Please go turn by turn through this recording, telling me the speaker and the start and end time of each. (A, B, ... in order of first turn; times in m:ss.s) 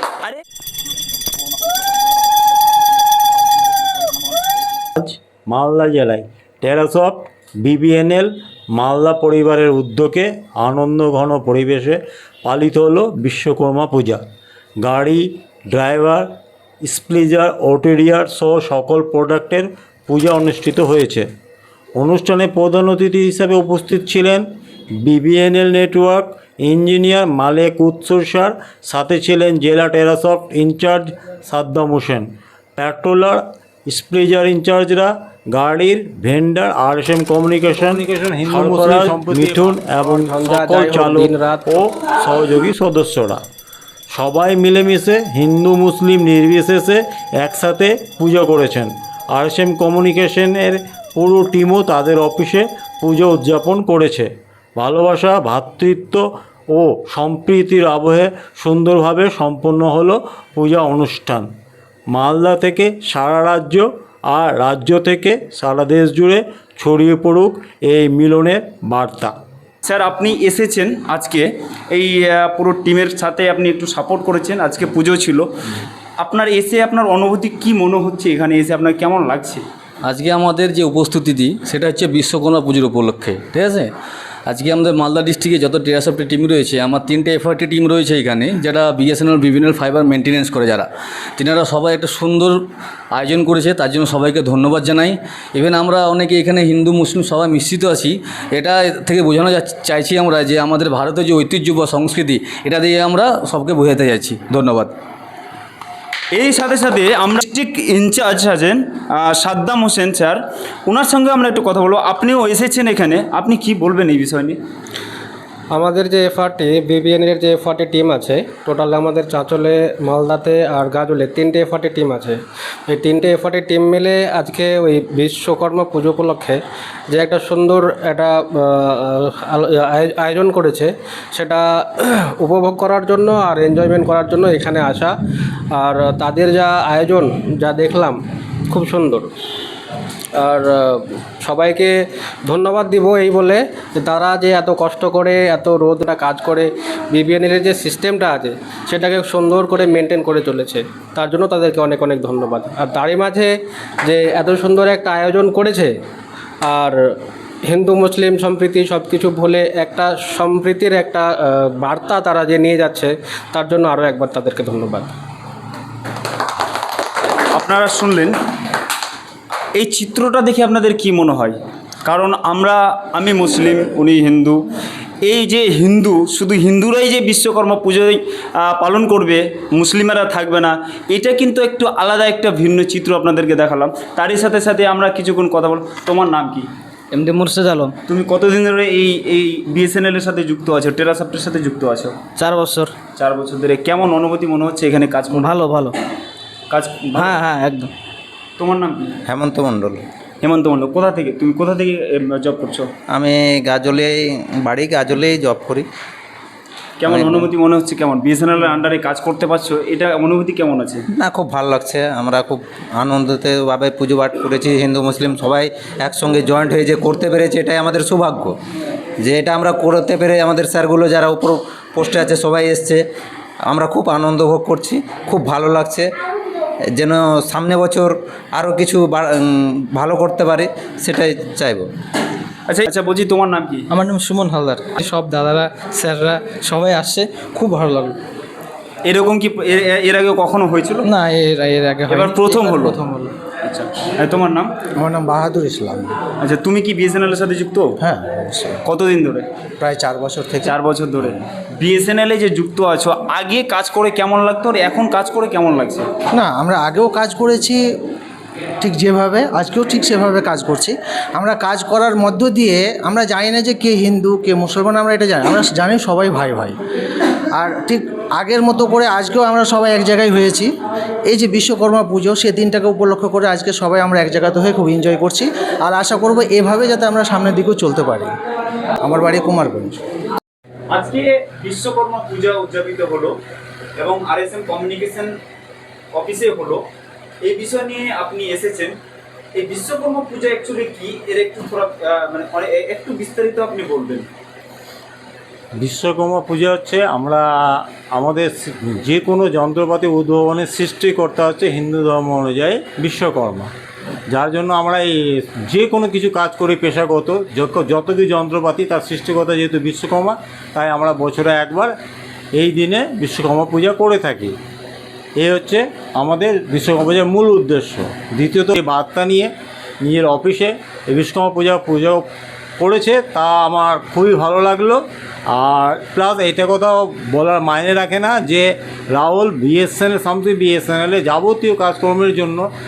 0:05.0-0:14.2 A
0:14.8-0:16.3 A
0:16.8-0:21.3 A
0:22.0-0:24.4 A
0:25.0-0:43.4 A
0:40.0-0:41.9 B
0:44.1-1:01.5 A
1:02.1-1:09.3 A
1:09.8-1:15.5 C
1:16.2-1:19.6 C
1:20.1-1:23.9 D
1:24.5-1:32.6 D
1:33.1-1:44.9 D
1:46.3-1:54.6 C
1:55.7-2:06.6 B
2:07.1-2:15.1 B
2:15.7-2:19.3 B
2:20.4-2:35.9 B
2:36.6-2:37.0 B
2:37.7-2:45.1 B
2:47.5-2:48.3 C
2:49.8-2:54.6 C
2:55.2-3:06.7 C
3:07.1-3:08.0 E
3:08.1-3:12.2 C
3:12.4-3:12.9 E
3:13.2-3:15.5 C
3:15.3-3:16.0 E
3:16.7-3:17.4 C
3:17.2-3:17.9 E
3:18.6-3:19.2 C
3:19.3-3:20.0 F
3:20.4-3:22.9 C
3:23.1-3:25.9 F
3:27.0-3:31.0 C
3:27.1-3:27.5 F
3:31.2-3:38.5 F
3:39.2-3:43.0 F
3:43.7-3:46.1 F
3:47.0-3:51.9 F
3:52.7-3:53.9 C
3:53.9-3:58.2 E
3:59.0-4:01.1 C
4:01.0-4:03.4 E
4:02.1-4:03.0 C
4:03.6-4:04.7 C
4:05.0-4:06.1 G
4:06.4-4:08.0 C
4:08.0-4:08.8 G
4:08.8-4:09.5 C
4:09.8-4:10.8 G
4:10.6-4:16.1 C
4:16.3-4:17.8 G
4:18.8-4:26.8 G
4:27.5-4:30.7 G
4:31.3-4:38.4 G
4:39.0-4:40.0 G
4:40.9-4:43.3 C
4:44.0-4:45.4 C
4:46.1-4:46.8 C
4:47.4-4:49.0 C
4:49.6-4:54.3 C
4:55.8-5:03.7 A
5:04.3-5:11.9 A
5:12.6-5:14.6 A
5:15.4-5:22.2 A
5:22.8-5:32.6 A